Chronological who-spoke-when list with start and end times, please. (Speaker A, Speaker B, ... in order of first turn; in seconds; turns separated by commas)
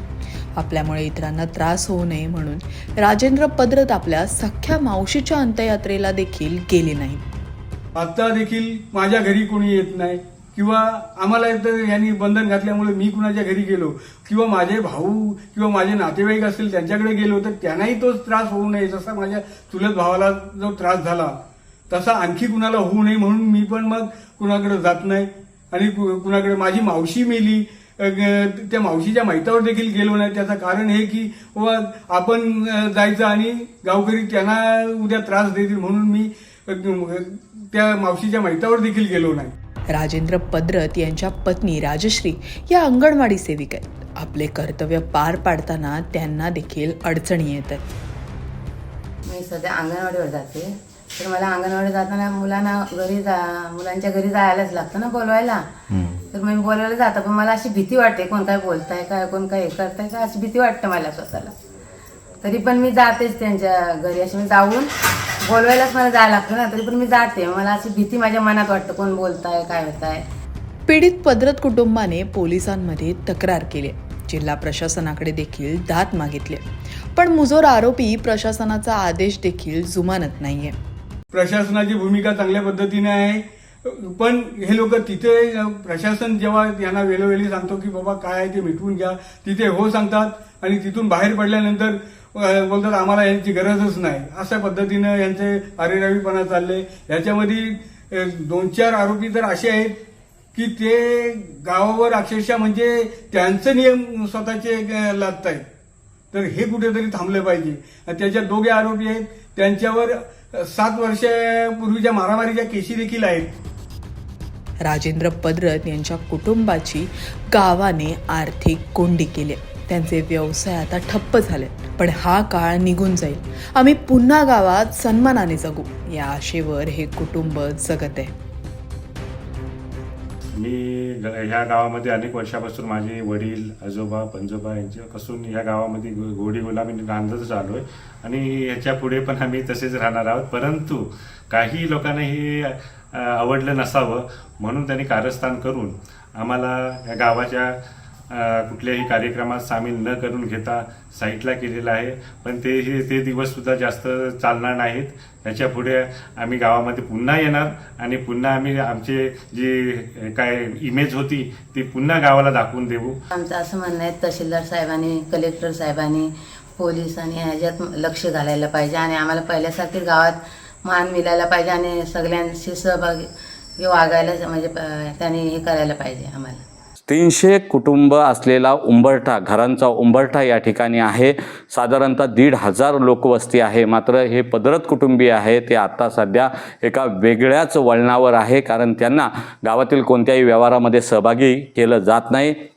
Speaker A: 0.6-7.2, Speaker B: 8.0-21.4, Speaker B: 21.9-39.5, Speaker A: 39.9-47.8, Speaker C: 49.3-61.5, Speaker C: 62.4-64.9, Speaker C: 65.4-70.3, Speaker A: 70.9-76.6, Speaker A: 77.2-80.7, Speaker B: 81.3-100.0, Speaker B: 100.5-105.7, Speaker B: 106.3-113.5, Speaker A: 114.8-128.3, Speaker D: 130.6-147.8, Speaker D: 148.3-163.2, Speaker C: 163.3-173.2, Speaker C: 173.8-176.6, Speaker E: 177.1-192.6